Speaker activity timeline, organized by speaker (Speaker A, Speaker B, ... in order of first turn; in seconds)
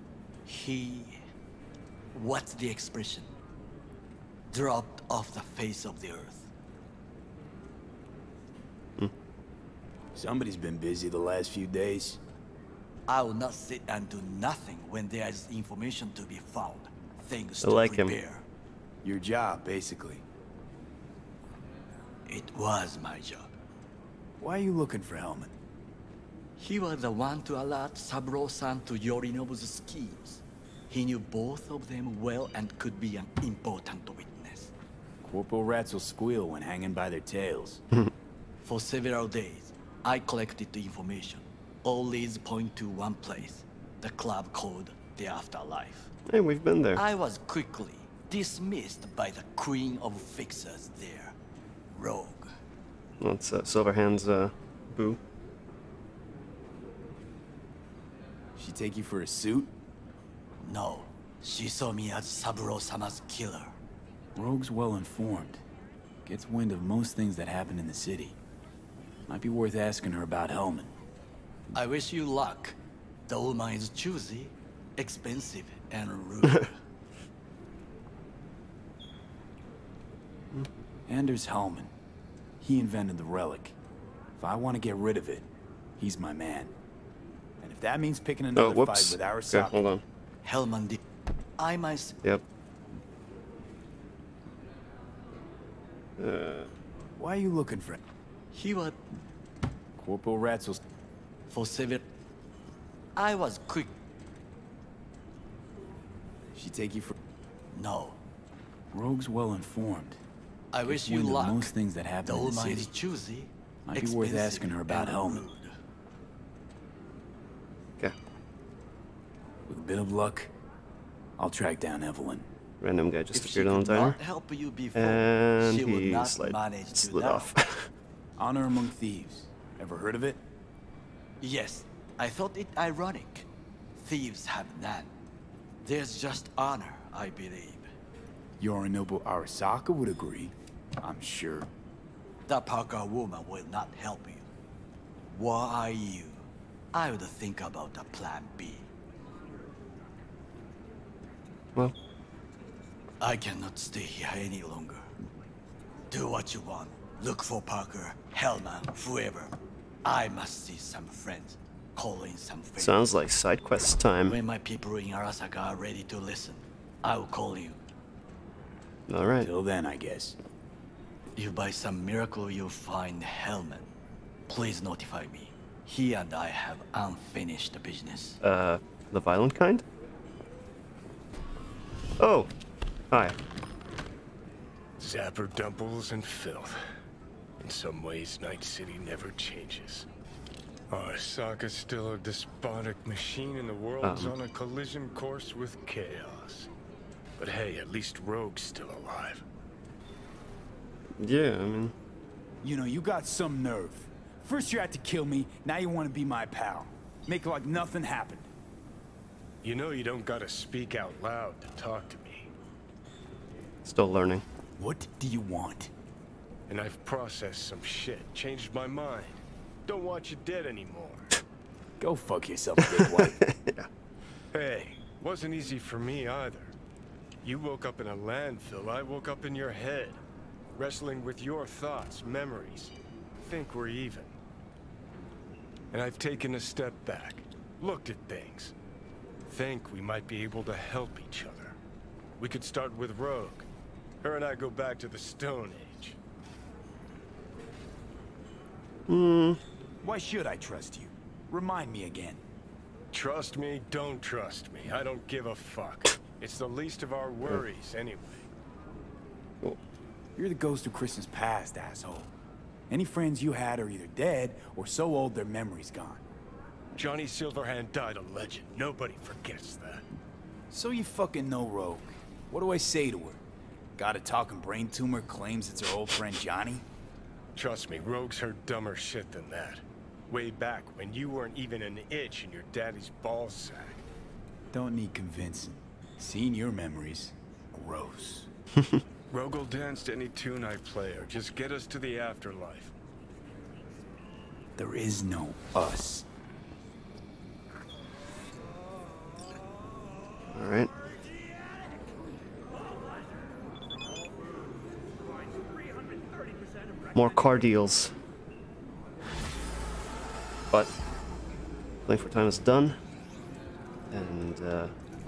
Speaker A: 0.5-1.2, 2.1-3.3, 4.5-6.5, 13.1-18.4, 22.3-23.5, 26.6-34.7, 38.6-46.1, 47.0-51.3, 51.9-52.5, 60.6-63.7, 71.7-72.8, 73.3-76.8, 90.4-91.0, 91.6-92.2, 98.5-99.0, 101.5-102.1, 103.2-103.9, 107.7-108.2, 110.7-115.7, 123.3-127.5, 131.4-135.1, 135.8-137.9, 142.5-144.5, 145.3-148.9, 153.2-155.1, 156.1-163.1, 164.2-167.8, 171.3-173.9, 174.5-178.4
Speaker B: 10.1-12.2, 19.0-20.2, 24.4-25.5, 35.2-37.8, 58.5-59.7, 64.3-65.6, 66.2-68.3, 69.3-70.9, 81.1-81.9, 82.6-83.7, 84.4-85.5, 86.0-86.7, 87.6-89.8, 97.2-98.0, 100.0-100.8, 106.5-107.1, 108.9-110.2, 110.8-112.9, 113.8-115.4, 119.7-120.5, 121.4-122.5, 128.4-130.4, 138.6-141.7, 169.4-170.4, 202.6-208.5, 214.8-215.9, 222.0-223.4, 250.0-252.4, 260.4-262.3, 262.9-266.2, 270.7-273.4, 273.9-276.8, 284.7-288.5, 294.8-296.2
Speaker C: 17.6-18.1, 46.3-47.0, 53.2-55.2, 88.5-90.0, 96.2-96.7, 122.8-124.2, 124.9-127.9, 162.8-164.4, 169.1-169.5, 178.4-179.8, 182.2-182.5, 183.1-183.3, 194.0-194.3, 201.2-201.9, 213.8-214.4, 222.9-223.9, 249.1-249.6, 288.8-289.0, 300.5-300.9, 307.1-308.1, 312.1-313.0, 314.1-314.9
Speaker D: 185.0-186.8, 187.6-190.1, 190.9-196.7, 197.4-199.4, 209.6-212.5, 216.7-221.4, 224.5-226.7, 227.4-230.2, 230.8-234.3, 235.9-238.7, 239.4-241.8, 242.4-243.7, 244.2-246.2, 253.1-258.5, 266.9-270.0, 277.5-284.0, 289.3-292.9